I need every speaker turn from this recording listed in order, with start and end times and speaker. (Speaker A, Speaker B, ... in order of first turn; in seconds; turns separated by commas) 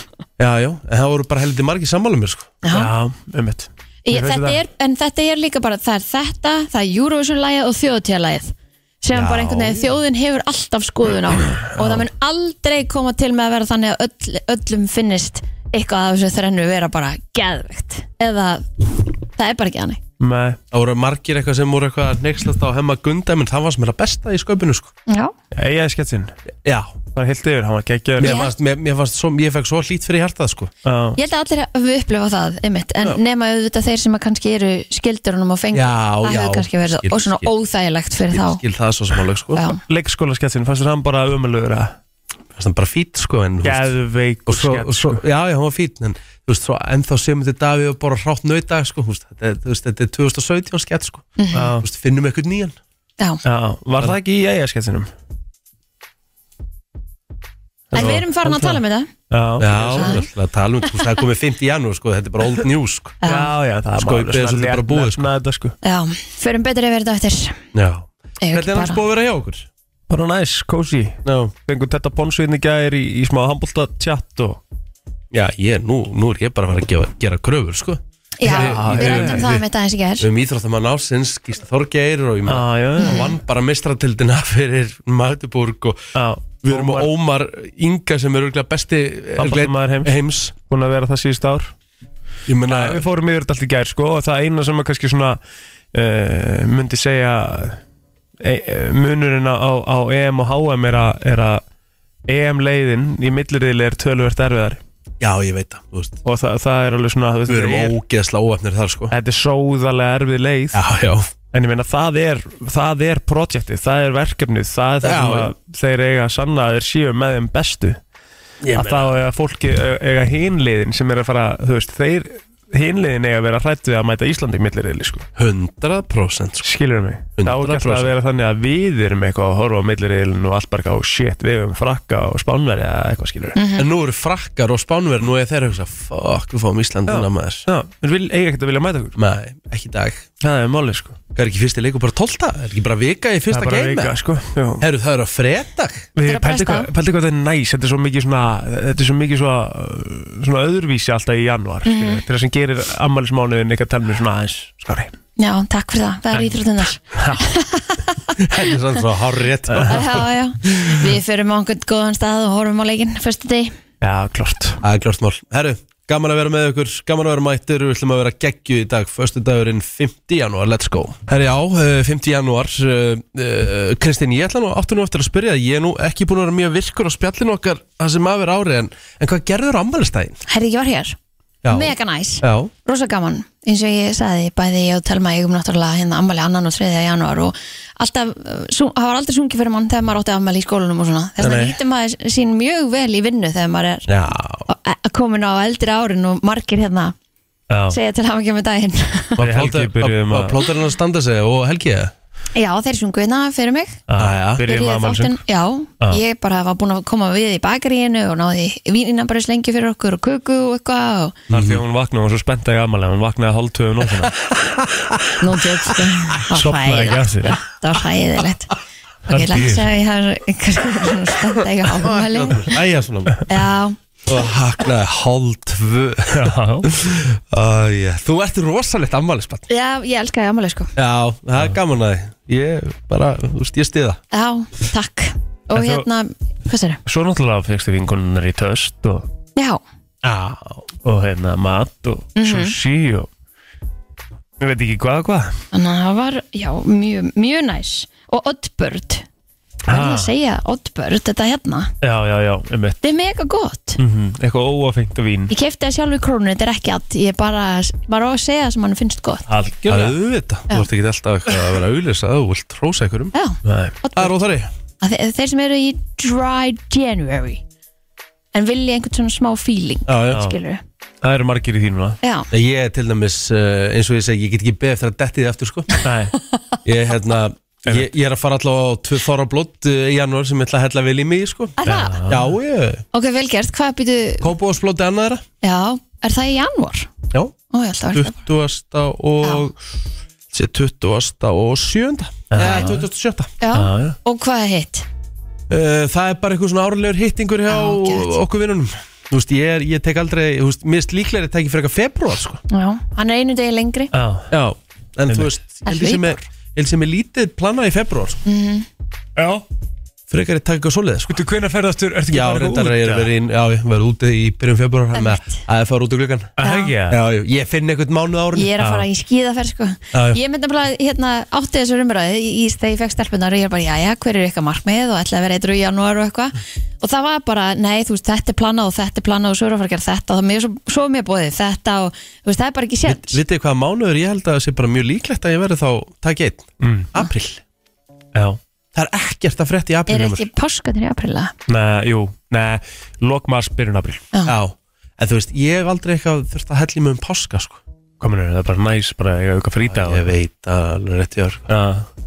Speaker A: 0.4-2.5, Speaker B: 2.6-2.9, Speaker C: 2.7-4.6, Speaker B: 4.0-18.7, Speaker C: 9.2-9.8, Speaker A: 9.2-9.6, Speaker C: 11.6-12.0, Speaker B: 19.4-20.0, Speaker C: 20.2-20.6, Speaker A: 20.7-24.9, Speaker B: 25.1-25.3, Speaker C: 25.5-26.3, Speaker A: 26.6-27.0, Speaker C: 27.1-28.4, Speaker A: 28.2-30.7, Speaker B: 28.2-28.5, Speaker C: 30.8-31.2, Speaker B: 31.1-38.6, Speaker A: 35.7-37.5, Speaker A: 38.3-39.6, Speaker B: 39.5-39.8, Speaker C: 39.9-41.9, Speaker A: 42.5-43.9, Speaker C: 43.6-45.2, Speaker A: 44.5-52.8, Speaker B: 51.4-51.7, Speaker C: 51.5-51.9, Speaker C: 53.4-55.1, Speaker C: 57.9-60.2, Speaker B: 57.9-59.1, Speaker A: 59.6-63.2, Speaker B: 63.2-63.5, Speaker C: 63.2-65.8, Speaker A: 64.0-65.3, Speaker B: 65.8-67.6, Speaker A: 67.7-69.7, Speaker B: 68.4-69.0, Speaker C: 70.1-74.6, Speaker A: 71.2-71.5, Speaker A: 75.3-79.6, Speaker B: 78.4-80.3, Speaker C: 78.4-79.6, Speaker A: 80.2-86.0, Speaker C: 82.5-83.3, Speaker B: 83.0-83.3, Speaker C: 86.1-87.1, Speaker A: 86.6-90.5, Speaker C: 89.4-90.1, Speaker C: 90.7-91.7, Speaker A: 92.5-93.0, Speaker C: 92.7-95.4, Speaker C: 95.9-97.8, Speaker C: 98.4-101.6, Speaker C: 102.3-104.8, Speaker A: 105.2-106.2, Speaker C: 106.2-107.9, Speaker A: 107.5-109.1, Speaker C: 109.1-110.8, Speaker A: 110.7-111.3, Speaker C: 111.5-118.0, Speaker A: 115.0-115.5, Speaker A: 118.6-119.1, Speaker C: 118.7-125.2, Speaker A: 125.3-126.7, Speaker C: 126.6-133.6, Speaker A: 127.4-128.1, Speaker B: 133.6-133.9, Speaker A: 133.8-137.7, Speaker C: 137.1-139.1, Speaker A: 139.2-140.3, Speaker C: 140.4-141.2, Speaker A: 141.3-144.2, Speaker C: 143.5-144.8, Speaker A: 144.8-146.1, Speaker C: 146.2-155.1, Speaker B: 146.2-146.9, Speaker B: 151.8-152.2, Speaker B: 155.4-158.3, Speaker C: 156.3-156.6, Speaker C: 157.1-157.4, Speaker A: 158.4-161.0, Speaker B: 159.9-163.7, Speaker C: 164.0-164.8, Speaker A: 164.8-180.4, Speaker B: 180.5-181.2, Speaker A: 181.6-182.7, Speaker B: 181.7-194.1, Speaker A: 191.4-191.8, Speaker A: 194.1-194.7, Speaker B: 194.7-197.1, Speaker C: 197.7-198.0, Speaker B: 197.9-199.4, Speaker A: 199.4-202.1, Speaker C: 199.4-200.6, Speaker B: 202.5-204.0, Speaker C: 204.1-205.4, Speaker A: 204.2-204.7, Speaker B: 204.7-211.4, Speaker A: 211.5-211.8, Speaker C: 211.5-214.3, Speaker A: 214.2-215.0, Speaker B: 215.4-218.7, Speaker C: 216.5-217.6, Speaker C: 219.3-219.9, Speaker B: 219.3-222.6, Speaker A: 221.9-223.4, Speaker B: 223.5-224.0, Speaker A: 224.2-229.7, Speaker C: 226.3-226.9, Speaker B: 229.7-230.9, Speaker A: 230.9-234.2, Speaker B: 234.3-237.0, Speaker C: 235.7-236.1, Speaker C: 237.1-239.3, Speaker B: 239.6-239.8, Speaker A: 240.2-240.8, Speaker C: 241.0-243.3, Speaker B: 242.4-242.8, Speaker C: 244.6-245.6, Speaker B: 245.7-249.2, Speaker C: 249.9-250.3, Speaker B: 249.9-251.9, Speaker C: 252.0-253.0, Speaker B: 253.0-254.0, Speaker C: 254.0-255.5, Speaker B: 255.5-259.4, Speaker C: 259.5-260.2, Speaker A: 259.9-263.3, Speaker B: 263.3-264.4, Speaker C: 263.6-263.9, Speaker A: 264.1-264.7, Speaker B: 265.0-267.6, Speaker B: 268.5-270.8, Speaker A: 270.1-270.4, Speaker C: 271.2-272.2, Speaker B: 272.2-272.5, Speaker A: 272.5-275.9, Speaker C: 276.0-276.3, Speaker A: 276.8-283.0, Speaker B: 281.8-282.2, Speaker C: 281.8-282.5, Speaker B: 283.1-284.5, Speaker A: 284.4-285.4, Speaker B: 285.6-287.1, Speaker B: 287.7-288.3, Speaker A: 288.1-289.8, Speaker A: 290.5-293.5, Speaker C: 292.5-293.0, Speaker B: 292.6-292.9, Speaker B: 293.6-295.1, Speaker C: 293.7-294.1, Speaker A: 295.7-302.6, Speaker B: 297.7-298.3, Speaker B: 302.7-304.1, Speaker C: 304.1-304.5, Speaker A: 304.5-308.4, Speaker C: 305.3-305.5, Speaker B: 305.8-306.4, Speaker B: 308.4-308.9, Speaker C: 309.4-309.6, Speaker A: 310.3-311.4, Speaker C: 311.3-313.3, Speaker A: 312.3-318.7, Speaker B: 315.1-315.6, Speaker C: 316.6-317.2, Speaker B: 316.6-316.9, Speaker B: 318.5-333.4, Speaker C: 318.8-319.1, Speaker A: 320.1-320.4, Speaker A: 333.0-337.6, Speaker C: 336.8-337.1, Speaker A: 338.9-340.5, Speaker B: 340.1-341.5, Speaker C: 341.7-344.2, Speaker A: 344.4-347.8, Speaker C: 348.2-350.3, Speaker A: 349.9-351.7, Speaker C: 351.7-352.1